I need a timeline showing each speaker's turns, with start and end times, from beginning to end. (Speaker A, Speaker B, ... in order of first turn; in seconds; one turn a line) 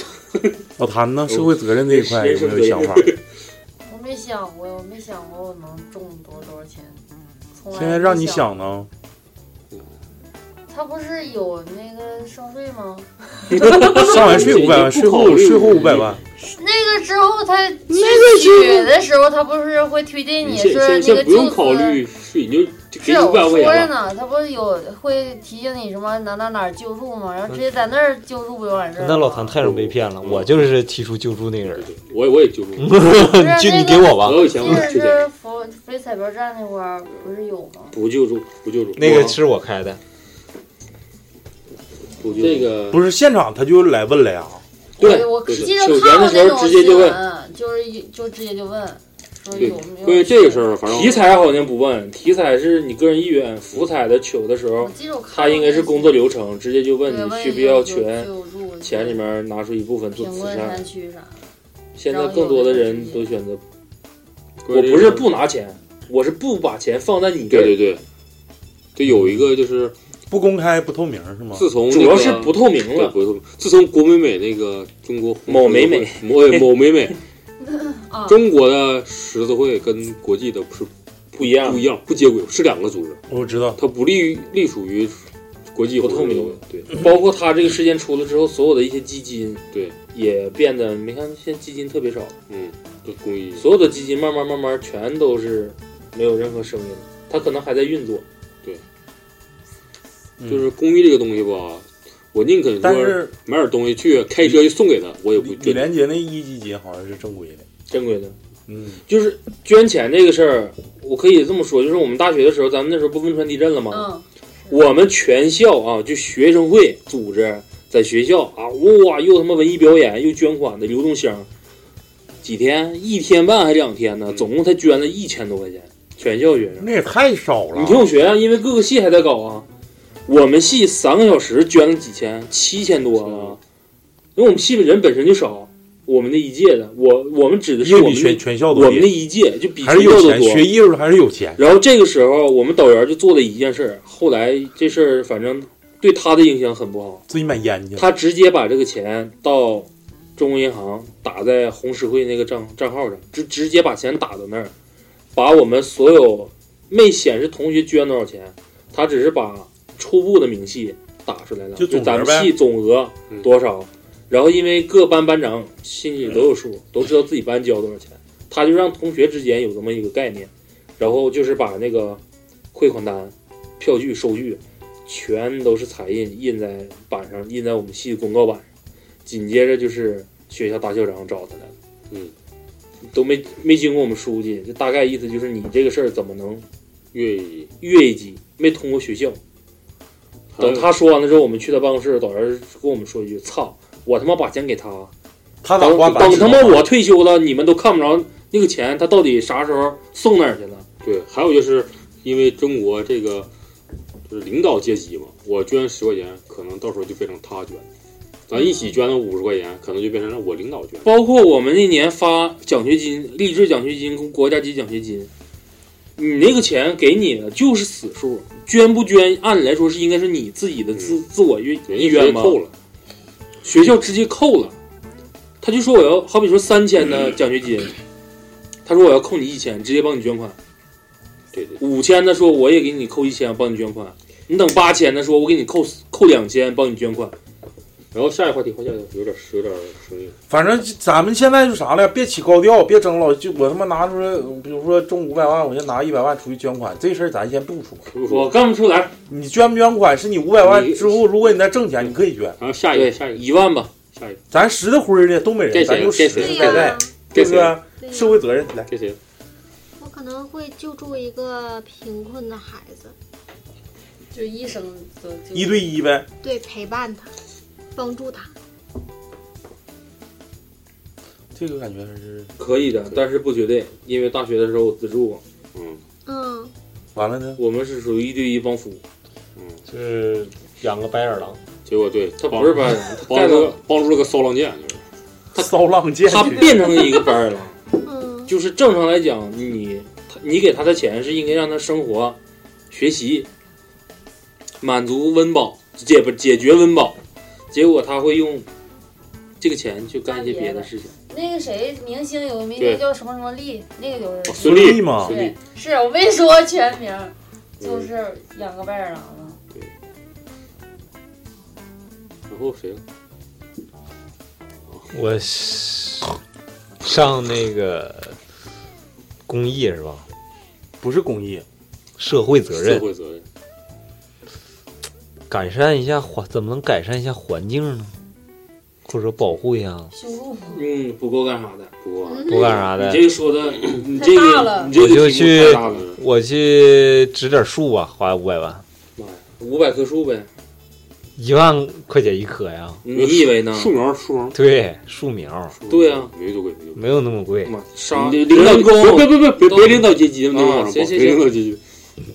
Speaker A: 0.8-3.1
Speaker B: 1.4-3.1
Speaker C: 3.9-7.0
Speaker C: 7.5-8.5
Speaker A: 7.7-8.9
Speaker C: 10.7-13.1
Speaker D: 13.5-16.2
Speaker A: 13.7-16.2
Speaker C: 16.4-22.0
Speaker D: 17.9-18.9
Speaker D: 20.4-24.0
Speaker C: 23.0-29.6
Speaker E: 29.0-31.9
Speaker D: 29.6-30.7
Speaker D: 31.7-33.0
Speaker E: 32.8-34.8
Speaker C: 33.1-38.0
Speaker D: 34.2-35.3
Speaker B: 37.9-39.4
Speaker D: 38.6-39.3
Speaker E: 39.0-40.0
Speaker B: 42.2-42.7
Speaker D: 42.4-43.0
Speaker A: 42.9-44.6
Speaker B: 45.0-47.2
Speaker C: 45.0-50.8
Speaker D: 45.1-45.8
Speaker D: 49.5-51.2
Speaker B: 50.9-58.3
Speaker C: 54.8-56.3
Speaker C: 57.0-59.2
Speaker B: 58.8-60.8
Speaker C: 60.2-61.4
Speaker B: 62.0-63.6
Speaker C: 62.1-63.4
Speaker D: 64.6-65.3
Speaker B: 64.7-67.8
Speaker D: 67.5-68.0
Speaker D: 69.0-70.0
Speaker A: 70.3-71.7
Speaker D: 71.5-77.2
Speaker B: 71.9-73.2
Speaker B: 75.5-76.6
Speaker C: 77.7-78.4
Speaker D: 78.2-83.2
Speaker B: 81.3-81.8
Speaker A: 83.3-83.8
Speaker D: 83.8-86.9
Speaker B: 86.0-92.3
Speaker D: 92.5-93.7
Speaker B: 93.6-98.2
Speaker A: 100.4-100.7
Speaker D: 100.5-105.9
Speaker A: 102.8-103.3
Speaker A: 105.4-107.6
Speaker B: 107.9-108.3
Speaker A: 108.7-109.0
Speaker B: 109.1-114.1
Speaker C: 113.9-114.8
Speaker B: 114.7-121.5
Speaker B: 122.4-126.9
Speaker A: 126.8-128.1
Speaker B: 127.7-129.7
Speaker B: 130.3-133.6
Speaker D: 133.2-133.6
Speaker B: 134.4-140.7
Speaker A: 137.8-139.2
Speaker A: 139.8-141.6
Speaker B: 141.6-147.2
Speaker A: 147.3-148.1
Speaker B: 148.0-154.7
Speaker B: 155.3-172.2
Speaker A: 161.8-162.6
Speaker B: 172.7-178.7
Speaker B: 179.3-181.7
Speaker B: 183.1-186.7
Speaker D: 187.1-187.7
Speaker B: 187.8-189.4
Speaker D: 190.5-190.9
Speaker B: 190.6-195.1
Speaker A: 195.6-196.9
Speaker B: 195.8-200.9
Speaker D: 201.0-203.5
Speaker D: 204.3-207.9
Speaker D: 208.5-211.1
Speaker B: 211.0-215.3
Speaker B: 216.2-222.6
Speaker D: 221.9-222.7
Speaker B: 223.6-224.8
Speaker B: 225.6-227.9
Speaker B: 228.9-230.6
Speaker D: 231.5-231.8
Speaker B: 231.8-237.3
Speaker D: 238.1-240.4
Speaker A: 240.5-248.1
Speaker D: 248.1-248.5
Speaker B: 248.3-249.1
Speaker A: 249.3-252.6
Speaker D: 250.6-251.5
Speaker D: 252.0-253.5
Speaker B: 252.9-253.9
Speaker D: 254.1-254.4
Speaker A: 254.5-258.9
Speaker D: 255.7-257.8
Speaker F: 256.4-257.1
Speaker F: 258.0-258.4
Speaker D: 258.9-259.2
Speaker F: 260.0-263.1
Speaker C: 264.3-265.9
Speaker A: 265.5-266.3
Speaker F: 266.4-267.3
Speaker F: 267.9-268.5
Speaker A: 271.6-272.5
Speaker B: 272.6-275.4
Speaker D: 275.7-276.0
Speaker F: 276.3-276.7
Speaker A: 277.1-277.6
Speaker B: 277.6-279.0
Speaker D: 279.6-279.8
Speaker E: 279.9-281.6
Speaker D: 281.9-285.0
Speaker B: 282.4-283.8
Speaker A: 285.6-286.8
Speaker B: 286.3-287.8
Speaker F: 288.0-288.5
Speaker B: 288.5-292.4
Speaker B: 292.9-293.5
Speaker B: 294.8-297.2
Speaker B: 297.7-298.7
Speaker B: 299.6-301.1
Speaker C: 300.3-309.6
Speaker D: 302.8-303.0
Speaker D: 304.4-305.6
Speaker A: 304.6-305.4
Speaker D: 307.8-308.1
Speaker D: 312.5-313.0
Speaker E: 315.1-316.4
Speaker E: 317.0-318.4
Speaker E: 319.5-320.2
Speaker A: 321.0-321.6
Speaker E: 322.2-323.1
Speaker D: 322.7-323.4
Speaker E: 325.5-328.1
Speaker E: 329.1-330.1
Speaker C: 330.1-330.8
Speaker B: 330.7-331.9
Speaker D: 332.0-332.9
Speaker F: 332.2-332.9
Speaker E: 332.4-333.3
Speaker B: 332.9-336.1
Speaker C: 334.1-334.9
Speaker E: 335.0-338.8
Speaker D: 335.0-336.2
Speaker B: 339.2-340.5
Speaker E: 341.4-343.0
Speaker B: 343.0-343.9
Speaker D: 343.1-344.6
Speaker E: 344.5-345.8
Speaker D: 345.8-347.0
Speaker B: 345.9-346.3
Speaker E: 346.9-347.7
Speaker B: 347.6-351.4
Speaker D: 348.1-351.8